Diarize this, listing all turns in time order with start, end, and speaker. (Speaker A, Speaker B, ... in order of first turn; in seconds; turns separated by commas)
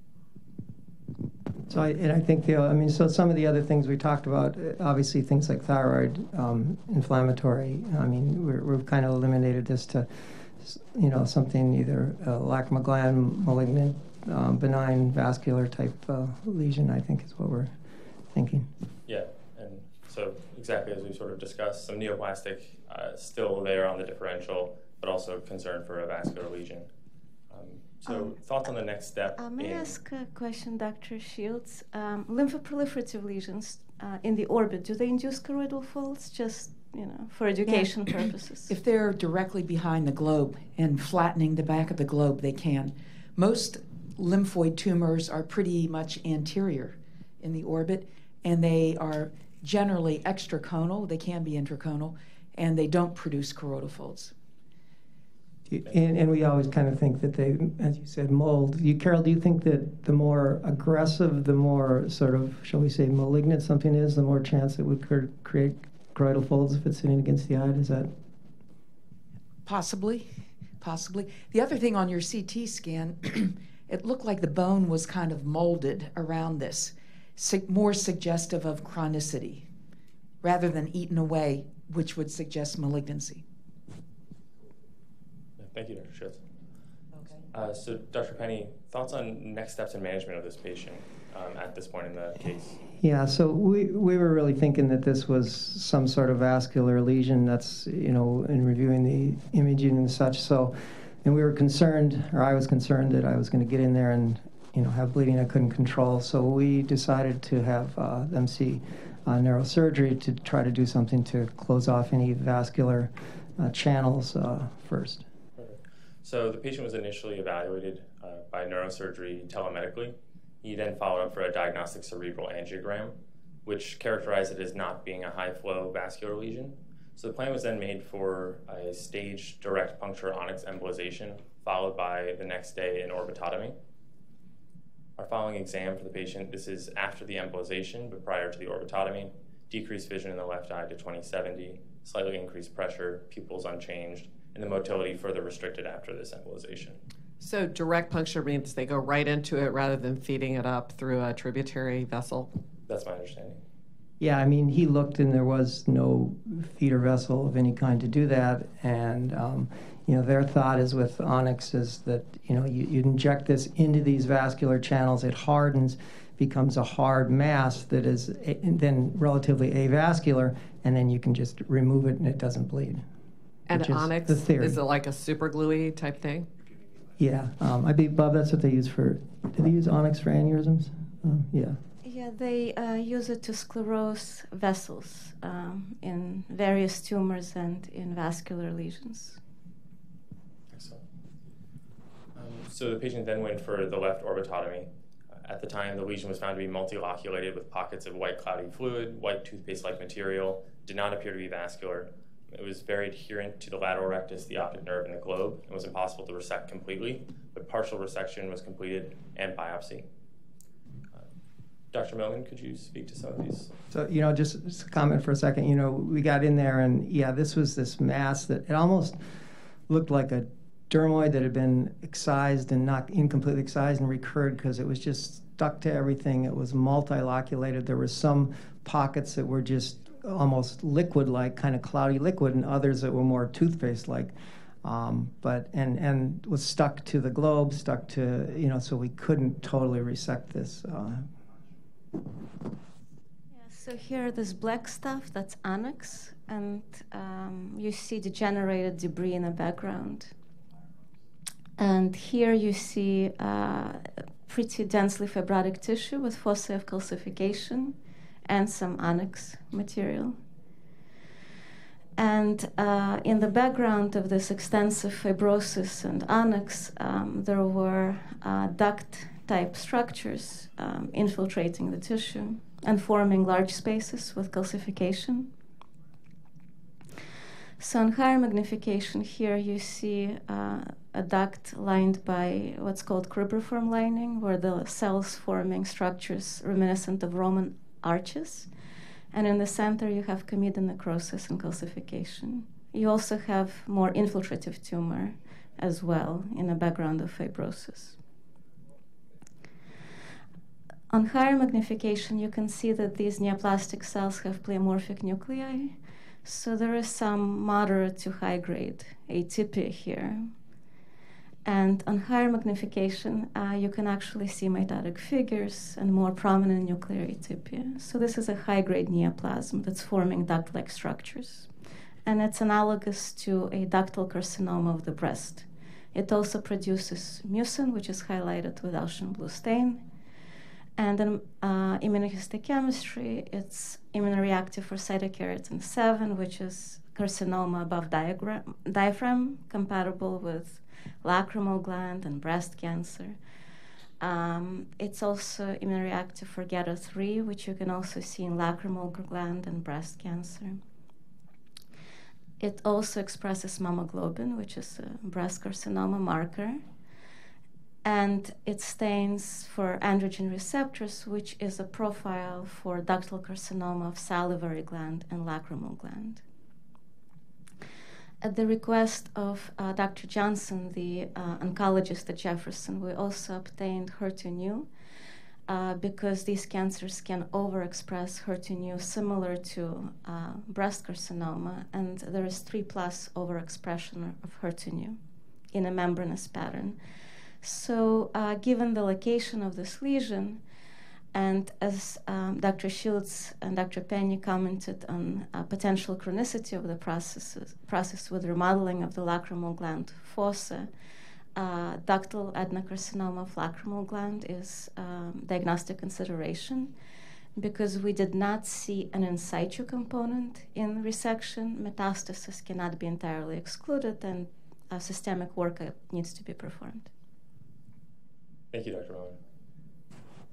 Speaker A: 1.7-17.7, Speaker A: 18.3-18.7, Speaker B: 19.1-26.9, Speaker B: 27.5-29.9, Speaker C: 28.1-28.3, Speaker C: 29.4-38.7, Speaker D: 37.6-54.3, Speaker A: 55.7-68.1, Speaker D: 69.6-79.7, Speaker D: 80.4-83.4, Speaker B: 85.6-86.4, Speaker B: 87.5-92.8, Speaker A: 93.0-115.2, Speaker B: 115.6-133.8, Speaker B: 135.2-147.0, Speaker E: 147.4-152.5, Speaker B: 152.9-153.6, Speaker A: 154.2-173.0, Speaker E: 173.7-176.5, Speaker A: 173.7-174.8, Speaker A: 177.2-181.8, Speaker C: 182.0-189.4, Speaker B: 190.7-191.0, Speaker B: 192.3-210.1, Speaker B: 211.9-213.7, Speaker A: 213.9-219.2, Speaker A: 219.9-241.3, Speaker C: 243.5-250.3, Speaker C: 251.8-260.4, Speaker C: 262.2-275.5, Speaker C: 277.8-288.7, Speaker C: 289.3-298.2, Speaker C: 301.1-310.5, Speaker C: 311.6-321.7, Speaker C: 322.2-330.0, Speaker C: 331.0-343.4, Speaker C: 344.2-350.8, Speaker C: 352.6-356.8, Speaker C: 358.0-366.4, Speaker C: 368.4-374.9, Speaker C: 375.7-385.2, Speaker C: 385.7-387.0, Speaker C: 387.6-390.6, Speaker C: 391.3-400.9, Speaker C: 401.6-406.9, Speaker C: 407.6-417.1, Speaker B: 418.7-419.4